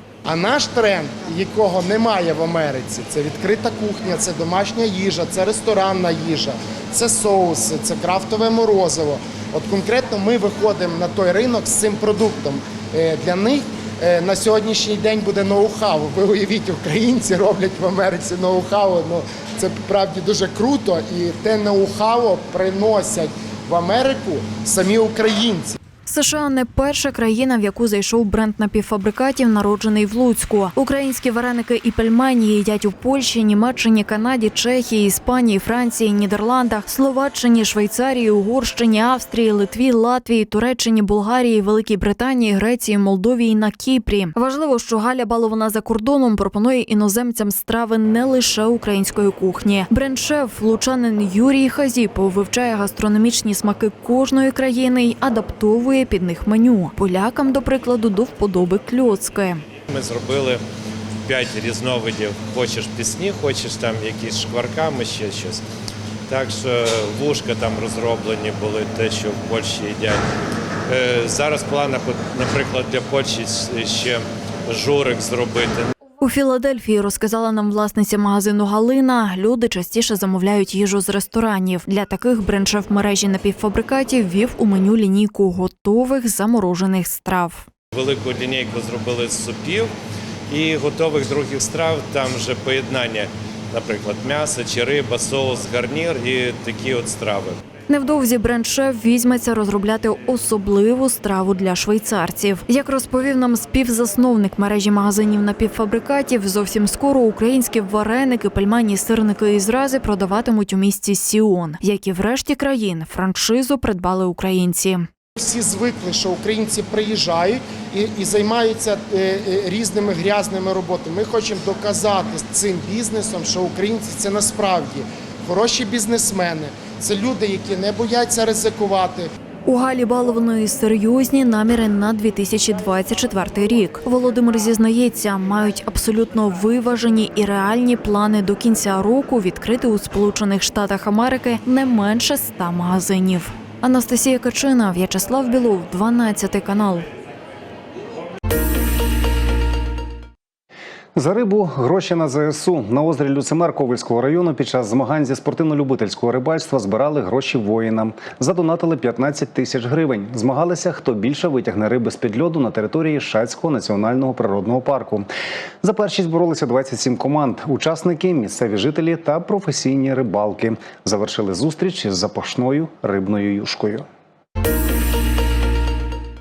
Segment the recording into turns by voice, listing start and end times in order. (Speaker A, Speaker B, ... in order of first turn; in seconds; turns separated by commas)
Speaker A: 0.2-25.8, Speaker B: 26.1-59.6, Speaker C: 59.9-60.6, Speaker C: 61.2-65.6, Speaker C: 66.3-70.3, Speaker C: 70.9-75.9, Speaker B: 76.2-87.7, Speaker C: 87.9-89.9, Speaker C: 90.5-97.6, Speaker B: 97.9-115.1, Speaker A: 115.4-129.3, Speaker B: 129.7-147.1, Speaker D: 151.2-165.3, Speaker D: 165.8-174.1